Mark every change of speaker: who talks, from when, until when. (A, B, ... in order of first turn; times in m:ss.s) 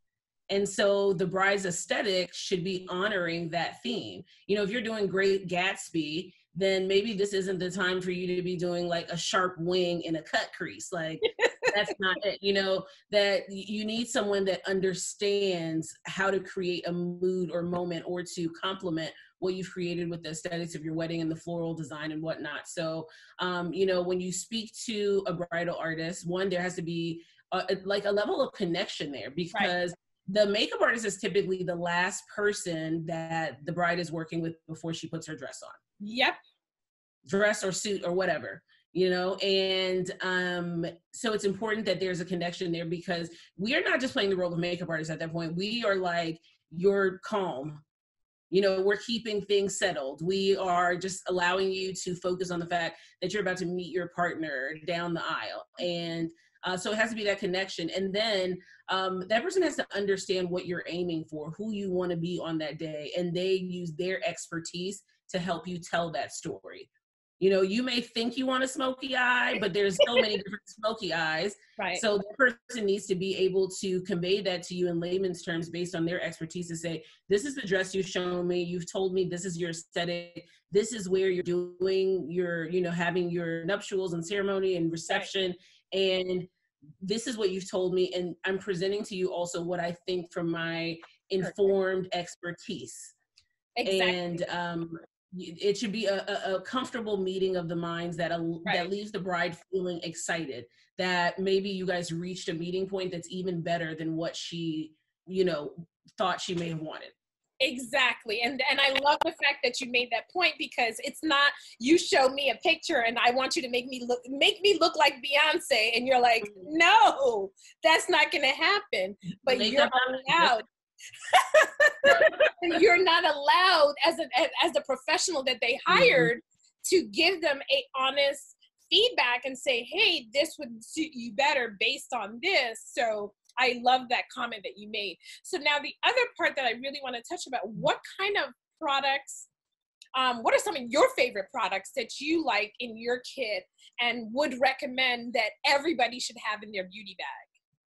0:00.5-0:35.8 A
0:11.2-0:11.7 B
0:36.0-0:36.4 B
0:37.2-0:47.8 A
0:48.5-1:06.9 A
1:07.4-1:26.5 A
1:11.8-1:12.0 B
1:27.0-1:33.1 A
1:33.8-1:34.4 B
1:33.8-1:47.1 A
1:47.6-2:00.6 B
1:59.5-2:00.5 A
2:01.3-2:19.5 B
2:02.1-2:02.4 A
2:05.9-2:06.3 A
2:20.1-2:27.5 B